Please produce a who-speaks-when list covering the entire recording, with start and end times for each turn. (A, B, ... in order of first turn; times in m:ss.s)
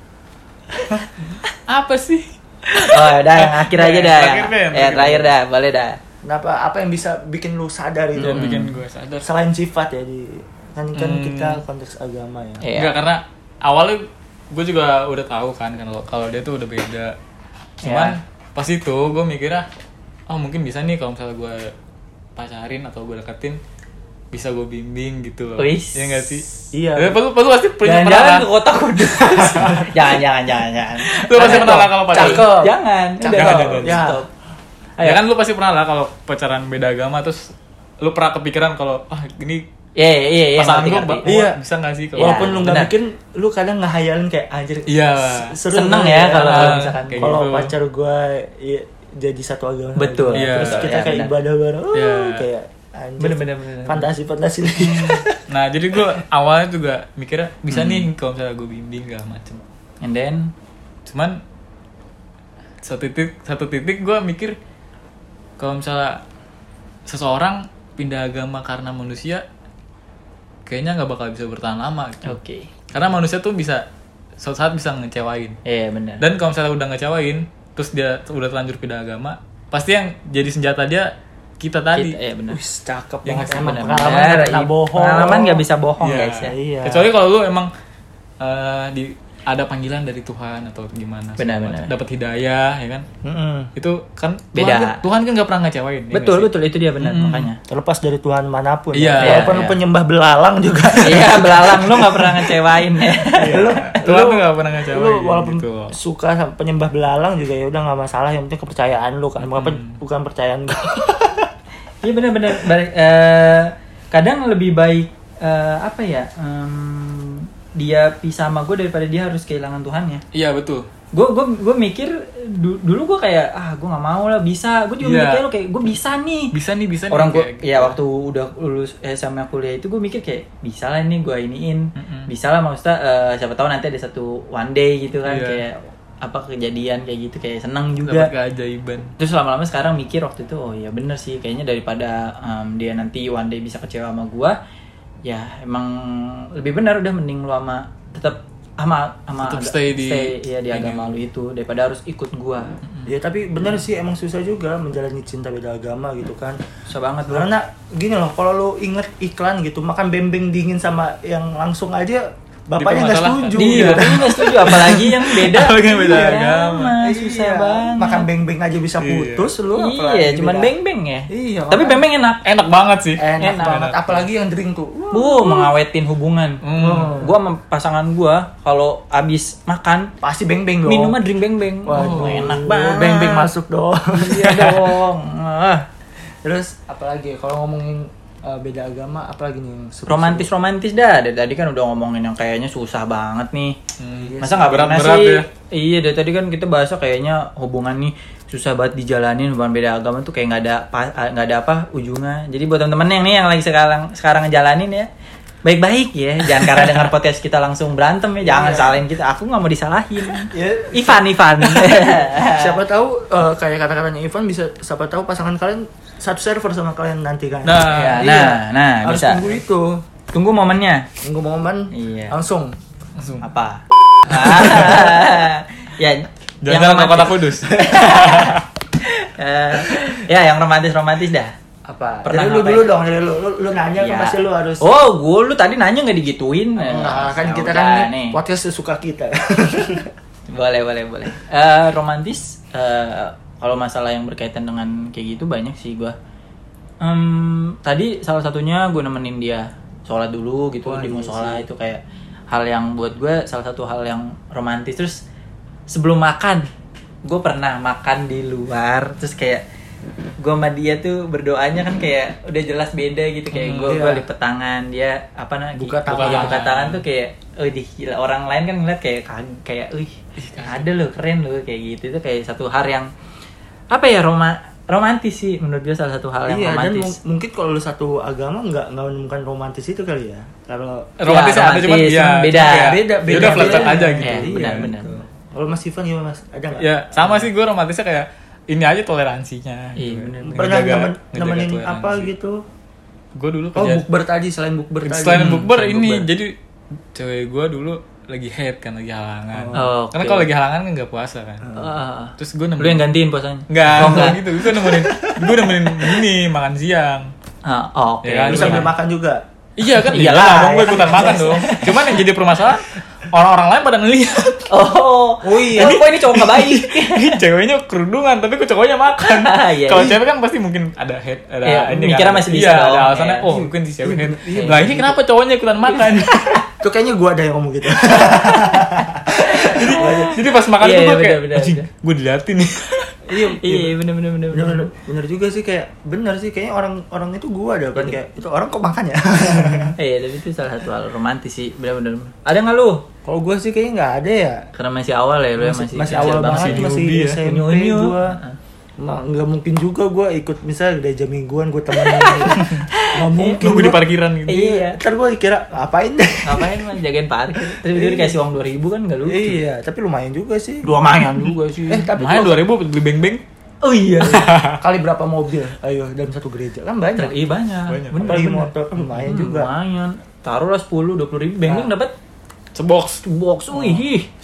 0:00.9-0:05.3 A
0:02.8-0:06.0 B
0:06.2-0:12.6 C
0:08.2-0:09.3 A
0:08.2-0:08.4 B
0:10.9-0:11.6 A
0:12.6-0:13.0 B
0:12.8-0:17.2 A
0:17.8-0:18.2 B
0:17.8-0:19.7 A
0:20.3-0:21.7 A
0:22.4-0:23.6 A
0:24.3-0:28.4 A
0:25.6-0:26.1 B
0:26.7-0:27.2 C
0:27.8-0:34.3 B
0:29.2-0:30.0 A
0:31.0-0:32.5 A
0:31.4-0:34.2 C
0:33.2-0:34.1 A
0:35.0-0:37.5 A
0:38.0-0:39.6 A
0:40.0-0:41.2 B
0:40.6-0:42.7 A
0:41.2-0:41.6 C
0:42.2-0:42.9 B
0:42.2-0:55.4 C
0:44.9-0:45.6 A
0:45.7-0:47.3 B
0:46.4-0:47.7 A
0:50.0-0:51.3 B
0:50.3-0:50.9 A
0:51.9-0:52.4 A
0:53.2-0:54.1 B
0:55.5-0:59.6 A
0:57.7-0:58.1 B
1:00.0-1:00.5 B
1:01.0-1:01.4 A
1:02.8-1:04.6 A
1:05.6-1:06.2 A
1:07.1-1:09.4 A
1:10.6-1:12.4 A
1:12.2-1:12.7 B
1:12.9-1:13.8 A
1:14.4-1:15.6 A
1:15.6-1:16.2 B
1:16.2-1:22.2 A
1:21.9-1:22.6 B
1:22.5-1:25.6 C
1:23.2-1:23.8 A
1:23.5-1:26.5 B
1:26.0-1:27.7 A
1:26.5-1:27.1 C
1:28.4-1:33.0 A
1:31.4-1:31.9 B
1:33.2-1:33.7 C
1:33.8-1:37.5 A
1:34.5-1:35.0 B
1:36.1-1:37.6 B
1:37.7-1:42.6 C
1:38.9-1:39.6 A
1:39.2-1:39.8 B
1:41.0-1:43.7 B
1:43.3-1:45.9 A
1:43.5-1:51.5 C
1:49.4-1:50.0 A
1:52.0-2:00.2 B
2:00.3-2:00.9 A
2:01.1-2:06.5 B
2:05.0-2:05.4 A
2:06.5-2:08.0 A
2:07.1-2:18.3 B
2:12.0-2:12.3 A
2:15.2-2:15.6 A
2:18.0-2:19.1 A
2:19.2-2:24.6 B
2:25.2-2:32.7 B
2:29.4-2:31.1 A
2:33.0-2:36.6 C
2:36.9-2:37.5 B
2:37.3-2:44.3 C
2:42.8-2:47.0 A
2:43.6-2:48.2 B
2:45.8-2:50.7 C
2:49.0-2:49.5 A
2:49.7-2:52.4 B
2:51.3-2:52.0 C
2:52.4-2:54.2 A
2:53.2-2:55.7 C
2:53.4-2:53.7 B
2:55.1-3:00.1 B
2:56.6-2:57.2 A
2:56.8-2:57.3 C
3:00.2-3:01.2 C
3:00.8-3:03.5 B
3:01.8-3:05.0 C
3:01.9-3:02.6 A
3:04.1-3:05.8 B
3:06.4-3:10.5 C
3:10.1-3:13.8 B
3:14.0-3:15.4 A
3:14.1-3:14.9 C
3:14.4-3:25.1 B
3:25.6-3:32.8 B
3:28.4-3:29.0 C
3:30.5-3:40.0 C
3:37.6-3:38.3 A
3:37.9-3:39.5 B
3:40.3-3:41.1 B
3:41.2-3:42.8 C
3:41.9-3:42.4 B
3:43.2-3:43.4 A
3:43.4-3:51.5 B
3:44.3-3:45.3 C
3:46.6-3:48.6 A
3:51.8-3:54.9 C
3:52.2-3:52.9 B
3:54.0-3:58.4 B
3:56.8-4:00.1 C
4:00.5-4:06.1 B
4:07.0-4:15.2 B
4:10.8-4:11.7 C
4:15.9-4:16.7 B
4:17.2-4:19.6 B
4:20.4-4:33.1 B
4:23.5-4:24.0 A
4:23.8-4:24.2 C
4:25.8-4:26.7 C
4:26.1-4:27.0 A
4:30.4-4:30.9 A
4:33.9-4:37.1 B
4:36.5-4:41.1 C
4:41.2-4:44.9 A
4:41.2-4:45.1 B
4:42.6-4:47.5 C
4:46.8-4:52.3 A
4:50.0-4:50.7 B
4:50.5-4:52.6 C
4:53.4-4:54.0 A
4:53.7-4:56.3 C
4:55.0-4:56.5 A
4:55.3-4:55.6 B
4:57.1-5:01.7 A
4:59.5-4:59.9 C
4:59.7-5:00.5 B
5:01.6-5:01.9 C
5:01.7-5:04.4 B
5:02.4-5:03.1 A
5:03.7-5:07.3 A
5:03.9-5:06.2 C
5:07.6-5:08.9 B
5:08.2-5:08.9 A
5:08.5-5:09.4 C
5:09.8-5:14.7 A
5:09.9-5:12.2 B
5:10.7-5:12.0 C
5:14.7-5:17.4 B
5:15.4-5:16.0 C
5:15.5-5:26.6 A
5:19.2-5:20.1 B
5:21.6-5:23.7 B
5:24.0-5:25.2 C
5:24.5-5:25.0 B
5:25.9-5:26.6 B
5:26.8-5:30.4 C
5:28.3-5:31.9 B
5:29.6-5:33.2 A
5:33.2-5:34.0 C
5:33.6-5:34.9 B
5:34.5-5:39.9 C
5:40.0-5:43.0 B
5:43.2-5:44.6 C
5:44.7-5:46.9 B
5:45.6-5:48.4 C
5:46.0-5:47.4 A
5:47.4-5:48.6 B
5:49.0-5:54.0 C
5:51.9-5:53.5 B
5:53.4-5:54.8 A
5:54.5-5:55.0 B
5:55.0-5:56.7 C
5:56.4-5:59.6 B
5:57.6-5:58.4 C
5:59.2-6:00.9 C
6:00.8-6:02.1 B
6:01.9-6:02.6 C
6:02.2-6:03.4 A
6:03.8-6:04.5 B
6:04.2-6:04.8 A
6:04.6-6:07.4 C
6:07.2-6:08.7 B
6:07.9-6:08.5 A
6:08.2-6:09.7 C
6:09.2-6:12.1 B
6:11.6-6:11.9 C
6:12.7-6:13.2 A
6:13.2-6:14.3 B
6:13.7-6:14.0 C